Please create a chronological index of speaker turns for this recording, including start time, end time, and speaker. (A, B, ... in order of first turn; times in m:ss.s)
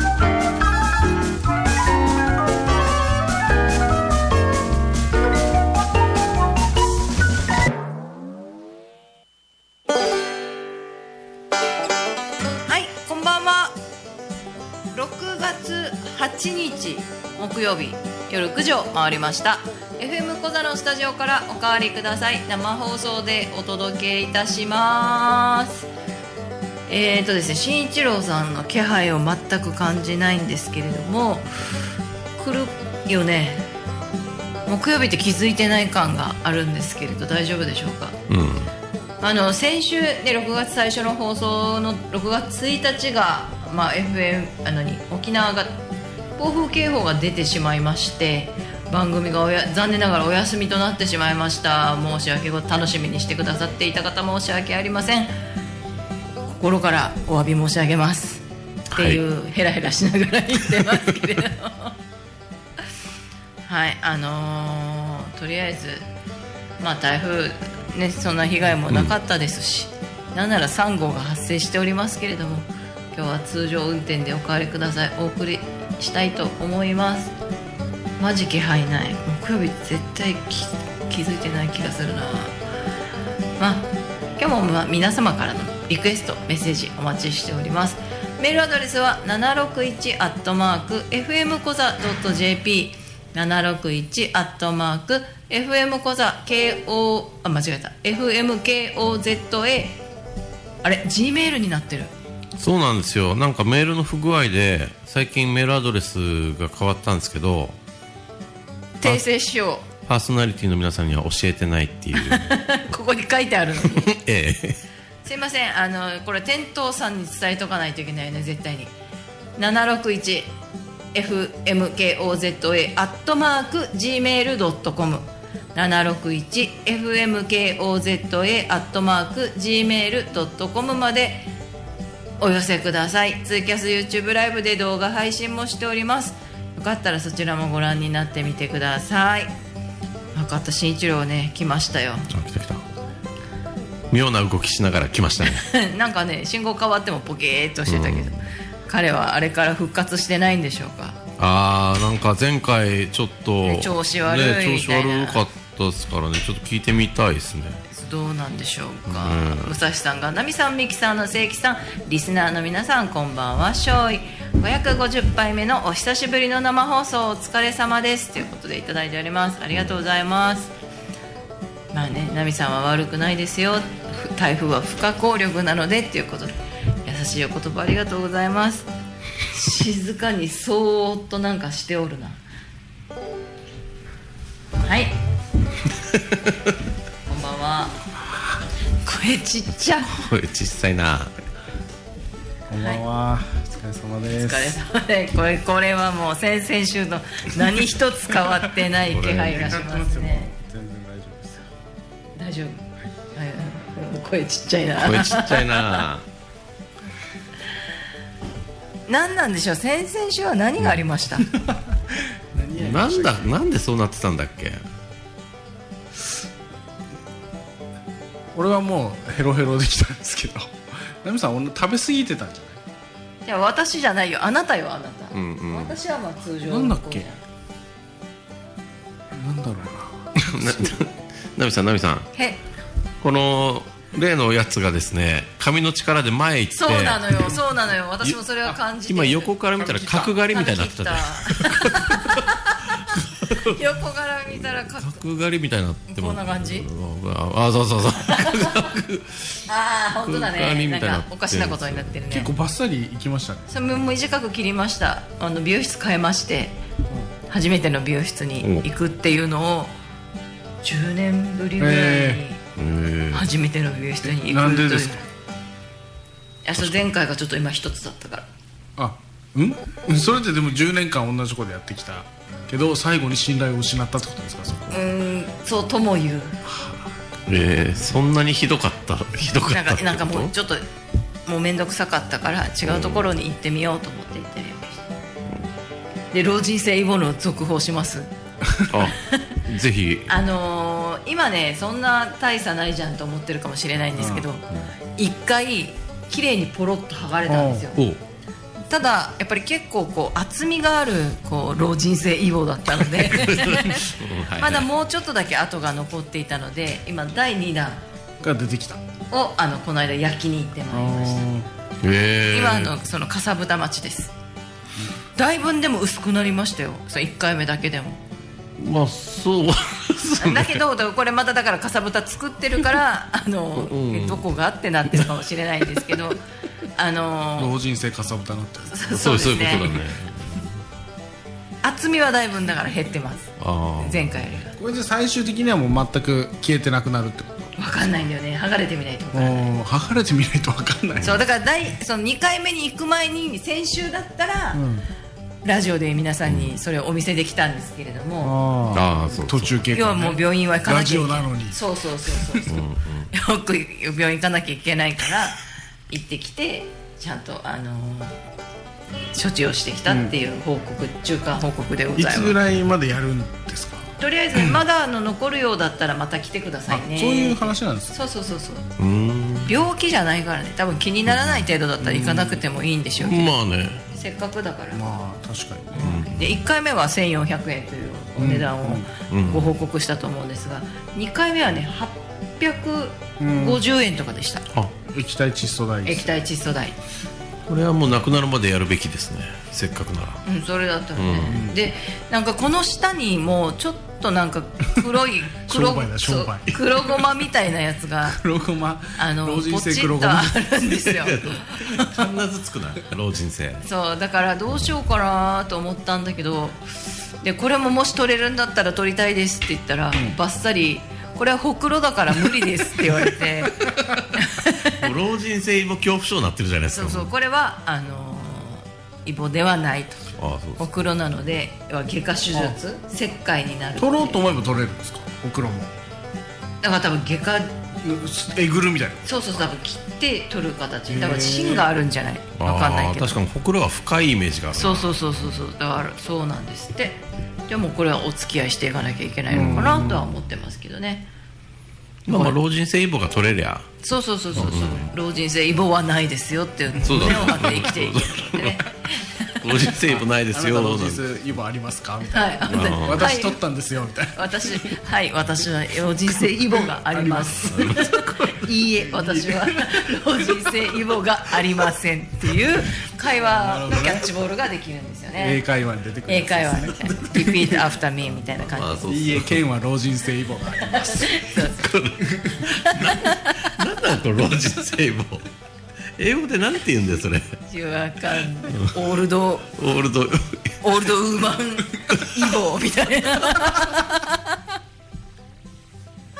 0:12.7-0:13.8 A
0:14.9-0:25.9 A
0:26.9-0:31.5 A
0:32.4-0:33.7 A
0:34.7-0:38.2 A
0:38.3-0:38.7 B
0:39.2-0:45.8 A
0:46.4-0:55.3 A
0:56.6-0:58.4 A
0:58.9-0:59.2 B
0:58.9-1:02.0 A
1:03.6-1:06.1 A
1:06.8-1:17.3 A
1:08.9-1:09.1 B
1:18.2-1:22.6 A
1:23.6-1:40.0 A
1:40.8-1:42.1 A
1:42.6-1:47.8 B
1:49.0-1:49.9 A
1:50.1-1:52.5 B
1:52.2-1:54.1 A
1:53.8-1:54.8 B
1:55.2-1:58.9 A
1:59.6-2:00.5 A
2:01.1-2:11.5 A
2:12.4-2:19.5 A
2:20.3-2:22.3 A
2:22.3-2:22.8 B
2:24.1-2:25.6 B
2:25.4-2:31.2 A
2:27.8-2:28.4 B
2:31.4-2:37.8 B
2:33.6-2:35.4 A
2:37.9-2:50.7 A
2:39.1-2:39.7 B
2:51.9-2:56.5 A
2:57.0-2:58.9 A
2:59.4-3:02.4 A
3:04.8-3:05.1 A
3:07.3-3:08.0 A
3:09.0-3:10.2 A
3:09.8-3:11.3 B
3:12.7-3:14.8 C
3:14.3-3:20.5 A
3:19.0-3:19.8 B
3:19.3-3:21.7 C
3:22.4-3:22.8 A
3:23.3-3:26.0 A
3:25.0-3:26.2 B
3:29.1-3:31.5 A
3:31.7-3:33.5 C
3:32.7-3:34.8 B
3:38.5-3:42.8 C
3:43.4-3:47.4 A
3:45.3-3:46.0 B
3:46.7-3:47.3 C
3:49.3-3:50.9 C
3:50.4-3:52.3 B
3:53.2-3:57.6 B
3:56.7-3:59.5 A
3:59.1-4:03.8 B
3:59.8-4:00.3 C
4:00.1-4:02.7 A
4:03.6-4:05.2 A
4:04.5-4:09.6 B
4:06.1-4:06.9 A
4:08.3-4:08.9 A
4:09.7-4:12.5 A
4:10.2-4:12.2 B
4:12.3-4:13.7 C
4:13.7-4:16.8 A
4:17.5-4:19.9 A
4:20.8-4:22.6 A
4:21.8-4:22.4 C
4:22.8-4:23.4 B
4:23.3-4:25.2 A
4:24.2-4:25.2 C
4:26.6-4:28.5 A
4:26.8-4:27.0 B
4:29.0-4:35.0 C
4:34.9-4:36.6 A
4:36.6-4:37.0 C
4:37.5-4:40.5 B
4:39.7-4:40.8 A
4:41.4-4:45.0 A
4:42.8-4:43.3 B
4:46.3-4:48.3 A
4:48.6-4:49.0 C
4:48.9-4:50.3 B
4:49.0-4:49.6 A
4:50.3-4:54.6 A
4:54.2-4:54.4 C
4:55.2-4:58.0 A
4:57.5-4:57.9 C
4:58.0-4:58.2 B
4:58.9-5:08.0 A
5:03.2-5:04.9 B
5:08.4-5:09.0 C
5:09.3-5:11.5 A
5:10.9-5:11.7 C
5:12.0-5:12.9 B
5:12.5-5:14.3 A
5:15.4-5:18.2 A
5:18.8-5:20.8 B
5:20.4-5:26.4 A
5:23.8-5:24.4 B
5:26.9-5:27.7 A
5:27.6-5:29.0 C
5:28.9-5:30.0 A
5:29.1-5:30.7 B
5:31.8-5:34.7 A
5:33.6-5:34.4 B
5:34.8-5:37.7 C
5:37.8-5:39.7 A
5:39.3-5:41.4 C
5:41.2-5:44.8 A
5:44.7-5:45.1 C
5:45.6-5:48.6 A
5:46.4-5:46.7 B
5:48.4-5:51.8 C
5:48.9-5:49.8 B
5:49.9-5:52.8 A
5:52.6-5:53.3 B
5:53.3-5:58.3 A
5:59.3-6:02.6 A
6:00.1-6:00.3 C
6:02.1-6:04.8 C
6:04.2-6:08.9 A
6:06.9-6:08.2 C
6:09.0-6:09.7 B
6:09.6-6:13.5 A
6:11.3-6:11.7 B
6:12.0-6:12.6 C
6:13.2-6:14.0 B
6:14.1-6:15.1 A
6:14.9-6:16.2 C
6:15.9-6:24.7 A
6:16.0-6:16.6 B
6:18.4-6:19.1 C
6:19.3-6:19.7 B
6:23.4-6:23.8 C
6:25.0-6:26.4 C
6:26.0-6:27.0 A
6:27.7-6:30.4 B
6:30.4-6:38.4 A
6:31.2-6:31.6 B
6:31.5-6:31.8 C
6:35.7-6:36.9 C
6:38.2-6:40.6 C
6:39.2-6:42.3 A
6:41.0-6:43.8 B
6:43.8-6:46.8 A
6:47.4-6:55.1 A
6:55.0-6:57.3 B
6:56.9-7:04.4 A
7:00.4-7:00.9 B
7:04.0-7:05.9 C
7:06.8-7:07.8 A
7:08.0-7:09.6 C
7:09.2-7:13.4 A
7:11.1-7:11.9 C
7:12.6-7:15.1 B
7:14.7-7:21.3 A
7:19.5-7:20.2 C
7:19.6-7:20.2 B
7:22.2-7:23.9 B
7:22.3-7:22.6 A
7:24.0-7:30.0 A
7:24.5-7:25.1 B
7:27.0-7:28.8 B
7:29.6-7:31.3 B
7:30.1-7:34.9 C
7:32.3-7:33.6 A
7:32.7-7:33.3 B
7:34.3-7:45.6 A
7:37.0-7:38.1 C
7:37.7-7:38.6 B
7:39.0-7:40.9 C
7:43.4-7:44.3 C
7:45.4-7:47.0 C
7:46.2-7:49.0 A
7:46.9-7:47.9 B
7:48.6-7:49.6 B
7:49.1-7:51.4 C
7:50.8-7:51.9 A
7:51.6-7:55.4 B
7:52.5-7:53.6 A
7:56.2-7:57.6 B
7:57.7-7:59.7 A
7:59.8-8:00.8 B
8:00.8-8:04.6 A